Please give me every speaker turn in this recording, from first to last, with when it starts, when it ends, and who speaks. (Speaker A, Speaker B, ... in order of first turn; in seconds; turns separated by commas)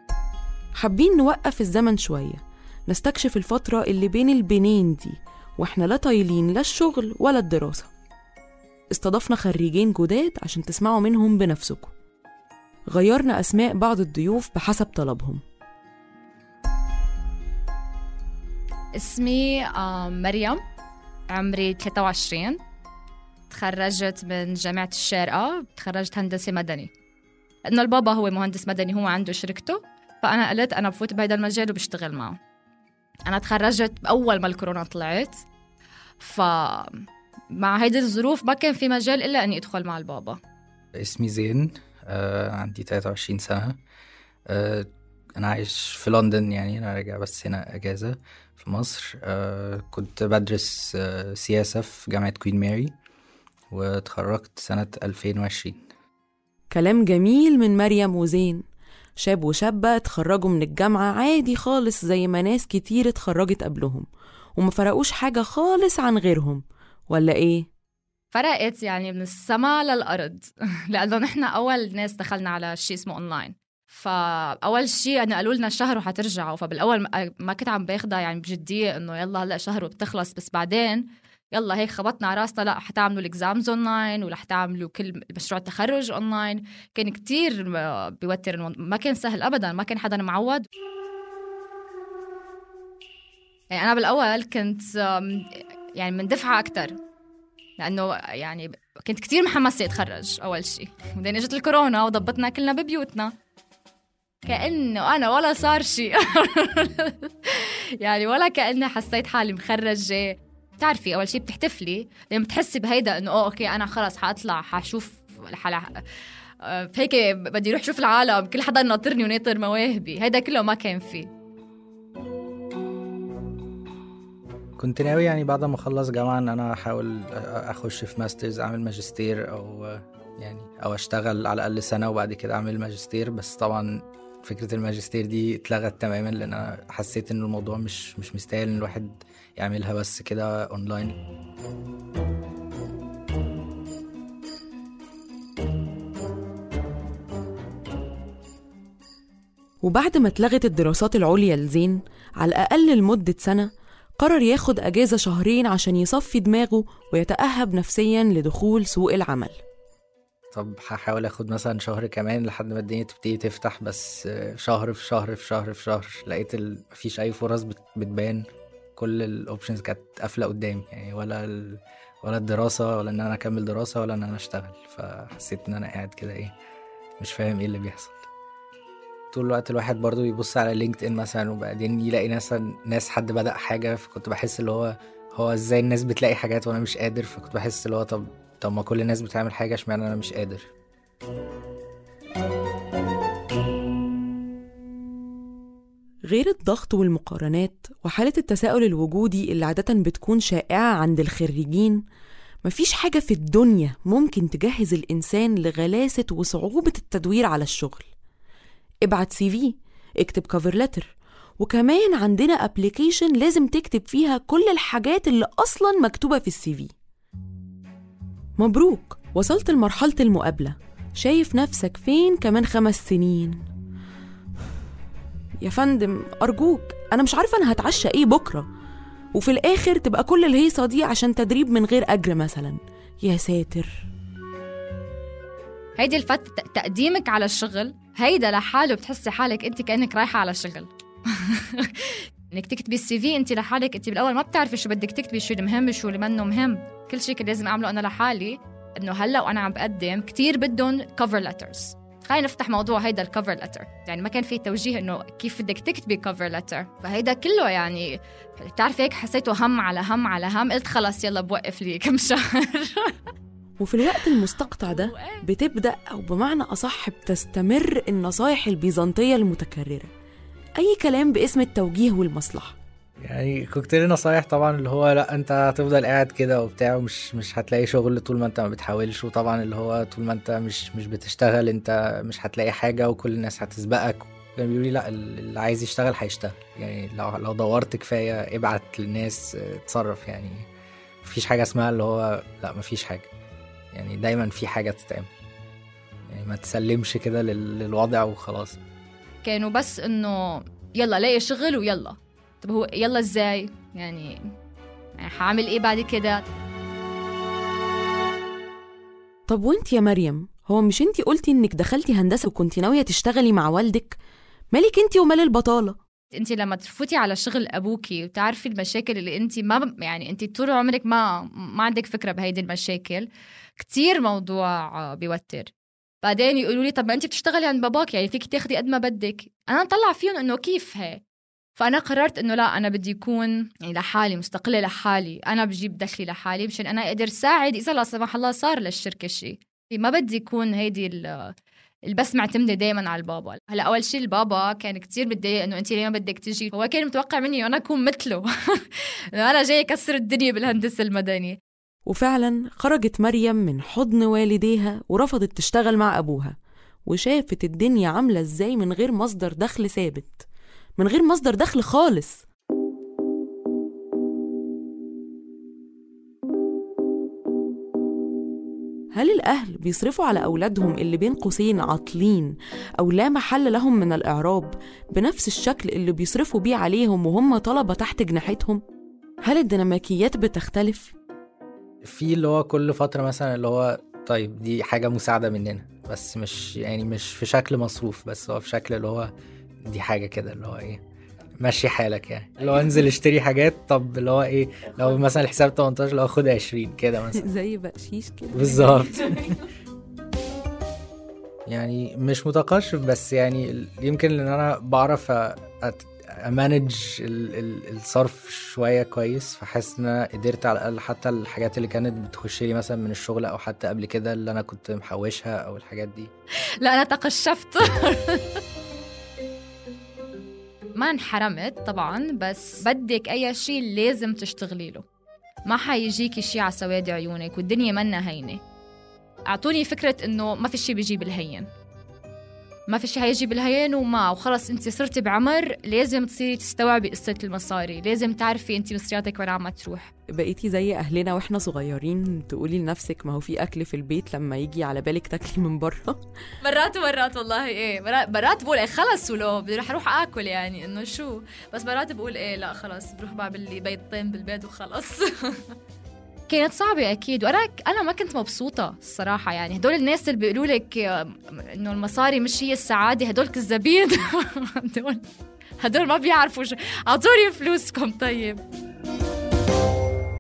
Speaker A: 0.8-7.9, Speaker A: 8.9-11.9, Speaker A: 12.9-15.4, Speaker B: 19.0-20.6, Speaker B: 21.3-22.6, Speaker B: 23.5-26.9, Speaker B: 27.7-32.4, Speaker B: 33.3-35.4, Speaker B: 36.2-40.4, Speaker C: 41.0-43.8, Speaker C: 44.5-44.9, Speaker C: 45.4-52.9, Speaker C: 53.7-55.8, Speaker A: 56.7-58.6, Speaker A: 59.2-67.7, Speaker B: 68.3-81.0, Speaker B: 81.5-90.7, Speaker B: 93.7-97.0, Speaker B: 97.8-103.3, Speaker B: 104.5-115.9, Speaker B: 116.7-121.3, Speaker C: 124.8-141.2, Speaker A: 149.8-159.6, Speaker C: 160.5-168.4, Speaker C: 169.0-176.5, Speaker C: 177.2-178.2, Speaker C: 179.3-190.7, Speaker A: 196.3-202.0, Speaker A: 202.6-208.1, Speaker A: 209.0-216.9, Speaker A: 218.6-223.6, Speaker A: 225.6-228.7, Speaker A: 229.3-234.0, Speaker B: 236.0-240.9, Speaker B: 241.4-263.2, Speaker A: 263.8-270.1, Speaker B: 264.8-265.4, Speaker A: 270.8-272.8, Speaker C: 273.2-290.6, Speaker C: 291.2-293.3, Speaker C: 293.9-295.3, Speaker C: 296.3-298.8, Speaker B: 299.4-304.4, Speaker B: 305.2-306.4, Speaker A: 309.5-314.2, Speaker A: 314.7-316.0, Speaker B: 316.3-323.3, Speaker B: 323.8-325.7, Speaker B: 326.2-331.2, Speaker B: 331.8-341.5, Speaker B: 342.1-351.6, Speaker A: 352.1-360.5, Speaker A: 361.0-362.4, Speaker A: 369.1-378.8, Speaker A: 379.4-381.1, Speaker C: 382.0-389.3, Speaker C: 389.9-391.0, Speaker C: 391.6-397.4, Speaker A: 397.3-399.1, Speaker C: 398.5-399.5, Speaker C: 401.7-416.3, Speaker B: 416.8-418.6, Speaker B: 421.0-425.0, Speaker B: 425.7-428.6, Speaker B: 429.5-431.7, Speaker B: 432.9-440.1, Speaker A: 440.3-446.2, Speaker B: 446.6-455.6, Speaker B: 456.5-465.2, Speaker B: 465.8-468.6